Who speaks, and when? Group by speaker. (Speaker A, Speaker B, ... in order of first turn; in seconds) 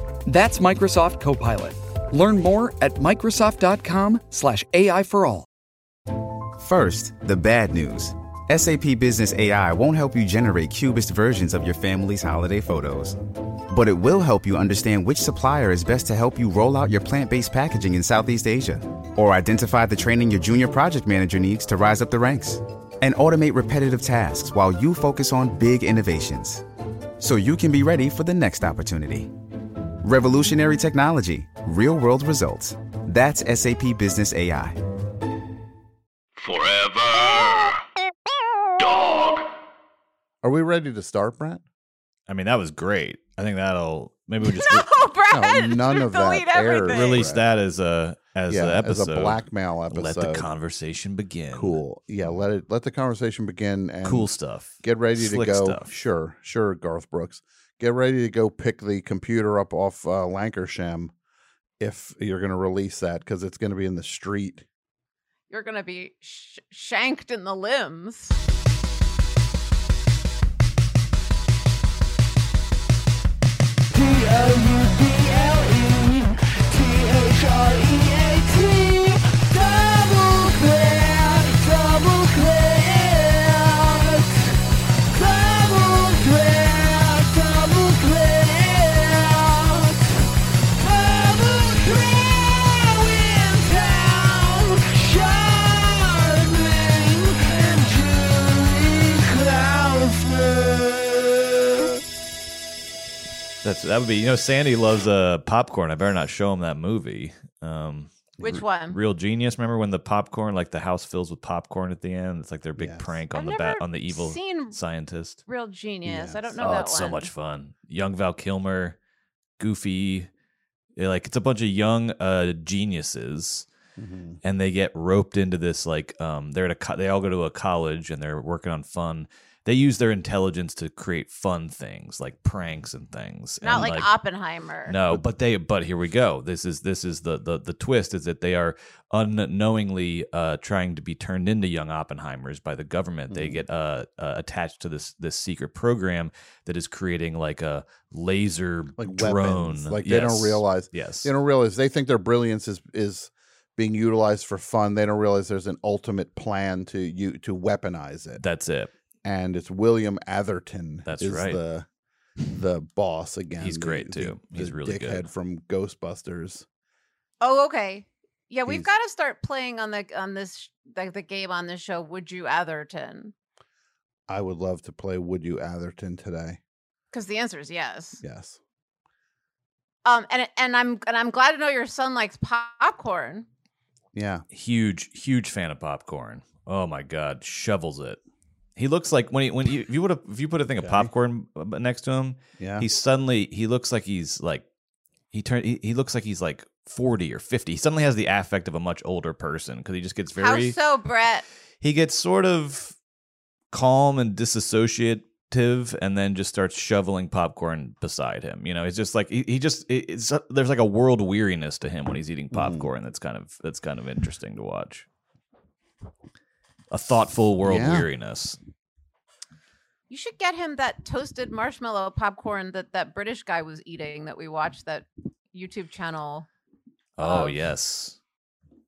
Speaker A: 0.2-5.5
Speaker B: 6.6-13.2, 13.7-26.6, 27.2-29.3, 30.0-34.8
Speaker C: 36.4-37.8, 38.8-39.5
Speaker D: 40.4-41.6, 45.3-47.4, 48.5-50.5, 51.5-54.3, 54.8-61.1, 61.8-64.6, 108.4-108.6, 112.8-113.1, 116.0-116.9, 124.0-124.4, 143.3-143.6, 149.0-158.4, 159.2-161.8, 162.5-166.7, 174.3-176.6, 178.2-178.6, 184.1-184.4, 190.8-191.1, 192.6-192.9, 212.5-212.9, 217.6-218.1
Speaker E: 42.3-44.9, 46.9-52.4, 54.0-55.9, 103.6-108.3, 108.9-115.4, 116.6-119.0, 119.6-120.3, 121.0-123.7, 124.4-134.1, 134.9-151.3, 158.4-158.9, 161.0-161.6, 163.6-165.3, 184.5-188.2, 188.8-194.6, 195.3-200.8, 201.8-202.9, 203.7-215.1, 216.9-218.6, 227.2-228.2
Speaker F: 44.5-47.2, 65.5-68.4, 108.4-109.0, 113.3-114.8, 115.5-117.3, 133.6-134.9, 167.4-173.3, 177.1-178.2, 180.0-183.5, 200.3-201.4, 220.1-226.5, 227.2-227.6